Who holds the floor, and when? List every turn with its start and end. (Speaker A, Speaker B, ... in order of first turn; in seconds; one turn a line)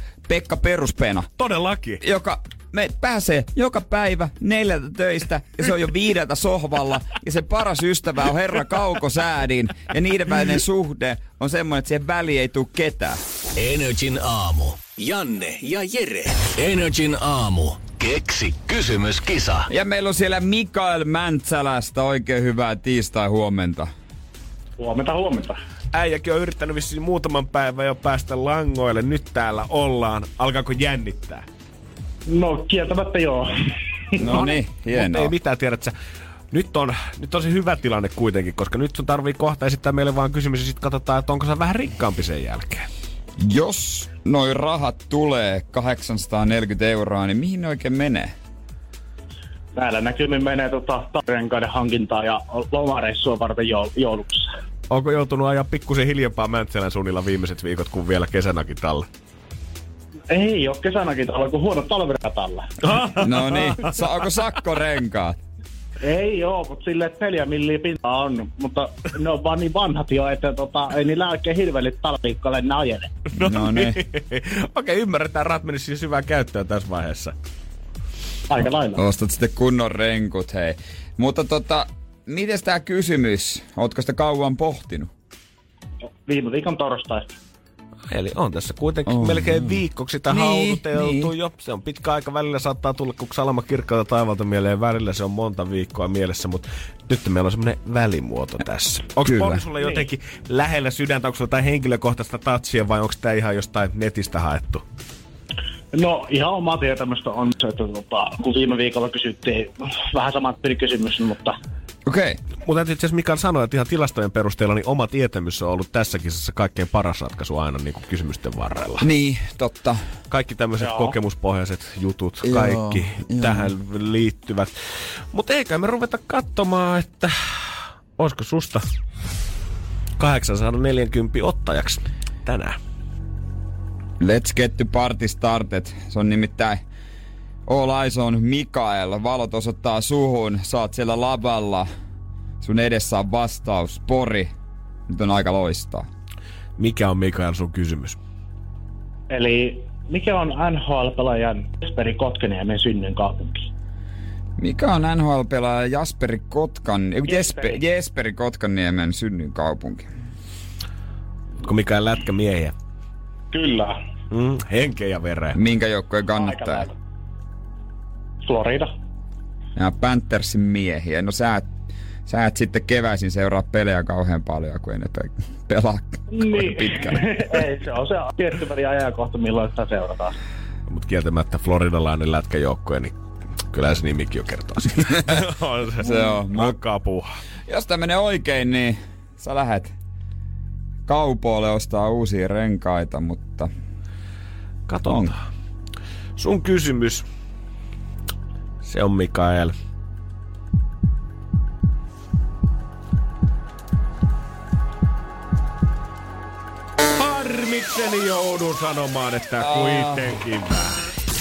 Speaker A: 0.3-1.3
Speaker B: 1.4-2.0
Speaker A: 2.0-13.2
Speaker C: 13.6-19.7
Speaker A: 19.7-23.9
Speaker D: 24.8-25.6
Speaker B: 25.9-31.4
Speaker D: 32.3-33.5
Speaker A: 34.2-35.3
Speaker B: 34.2-35.9
Speaker B: 36.5-42.9
Speaker A: 43.4-48.3
Speaker D: 49.8-54.5
Speaker B: 54.9-59.1
Speaker D: 60.3-62.7
Speaker B: 62.8-64.1
Speaker A: 63.2-65.4
Speaker D: 66.0-73.1
Speaker B: 73.3-77.4
Speaker A: 73.4-74.0
Speaker D: 78.5-79.0
Speaker A: 79.0-85.1
Speaker D: 86.3-87.4
Speaker B: 88.1-104.8
Speaker A: 89.0-89.8
Speaker A: 90.3-91.3
Speaker A: 99.3-99.6
Speaker D: 105.9-111.6
Speaker A: 112.0-112.4
Speaker B: 112.6-119.1
Speaker A: 119.0-120.0
Speaker B: 120.3-124.7
Speaker D: 120.8-121.1
Speaker A: 122.4-123.7
Speaker B: 125.3-128.8
Speaker B: 130.2-132.8
Speaker A: 134.2-136.8
Speaker A: 137.7-141.9
Speaker A: 142.6-144.5
Speaker A: 145.1-146.1
Speaker B: 146.8-148.2
Speaker D: 149.3-153.6
Speaker A: 154.6-160.1
Speaker D: 157.3-157.8
Speaker B: 161.6-162.7
Speaker D: 163.5-164.0
Speaker B: 164.3-165.6
Speaker A: 165.6-166.9
Speaker D: 166.3-166.9
Speaker D: 168.4-168.9
Speaker A: 169.8-171.7
Speaker A: 172.3-177.4
Speaker D: 176.3-180.4
Speaker B: 180.9-183.2
Speaker B: 183.7-187.3
Speaker A: 186.0-186.7
Speaker A: 187.7-189.9
Speaker A: 191.1-193.7
Speaker B: 194.9-195.4
Speaker A: 195.1-195.3
Speaker B: 196.4-197.3
Speaker B: 198.8-199.7
Speaker B: 207.2-211.1
Speaker A: 209.6-210.3